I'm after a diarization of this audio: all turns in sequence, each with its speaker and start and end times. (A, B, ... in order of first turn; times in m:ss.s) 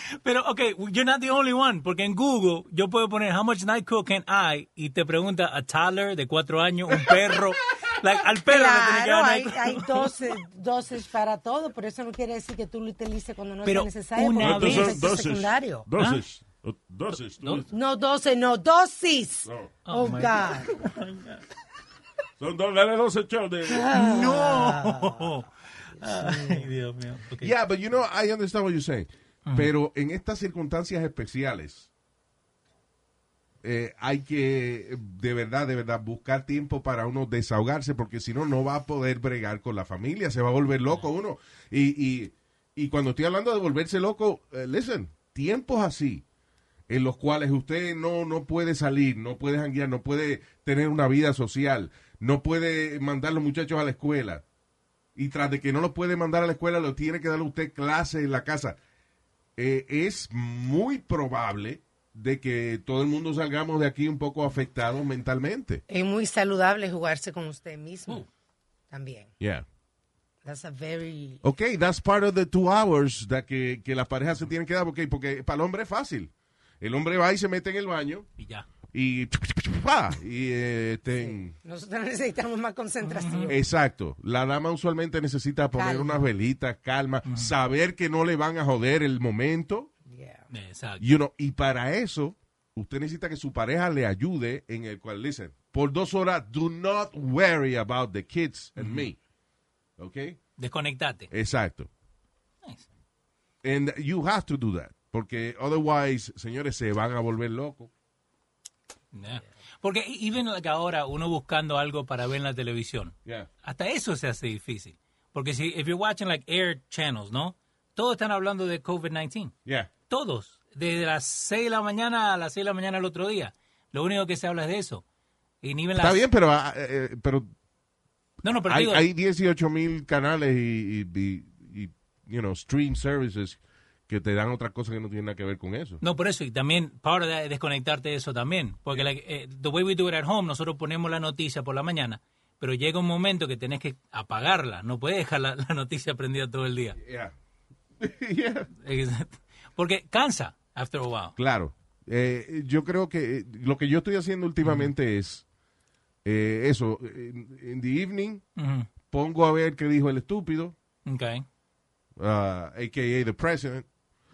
0:00.2-0:10.1 A
0:08.5-0:15.9 B
0:13.6-0:15.2 A
0:14.4-0:17.7 C
0:16.0-0:16.2 A
0:17.4-0:17.6 A
0:17.7-0:20.8 B
0:19.4-0:19.7 C
0:19.9-0:21.4 A
0:22.4-0:23.9 C
0:23.7-0:25.3 B
0:23.9-0:27.5 A
0:26.0-0:26.7 B
0:27.4-0:31.9 D
0:29.4-0:29.7 A
0:33.6-0:46.2 D
0:46.9-0:54.4 D
0:55.2-0:58.8 D
0:59.6-1:05.8 D
1:05.9-1:08.2 B
1:08.9-1:09.3 B
1:09.4-1:09.6 D
1:10.4-1:11.4 B
1:11.4-1:18.3 D
1:18.4-1:18.6 A
1:18.9-1:21.5 D
1:21.1-1:23.6 B
1:23.0-1:23.5 A
1:23.5-1:29.9 D
1:25.8-1:26.2 B
1:27.2-1:27.5 A
1:30.1-1:30.5 B
1:30.5-1:31.0 A
1:31.0-1:39.2 D
1:38.8-1:39.0 A
1:40.0-1:40.4 D
1:40.6-1:41.3 A
1:41.3-1:41.9 D
1:43.6-1:47.9 D
1:49.1-1:59.5 A
1:59.6-1:59.9 D
2:00.1-2:05.0 A
2:05.6-2:06.2 A
2:06.0-2:07.5 D
2:08.4-2:09.0 A
2:08.6-2:16.0 D
2:16.0-2:27.0 A
2:27.0-2:27.3 D
2:28.0-2:28.7 D
2:28.8-2:31.4 A
2:31.4-2:35.4 D
2:34.6-2:34.9 A
2:36.2-2:38.4 D
2:38.6-2:38.9 A
2:39.1-2:40.8 D
2:41.0-2:41.4 A
2:42.2-2:43.9 D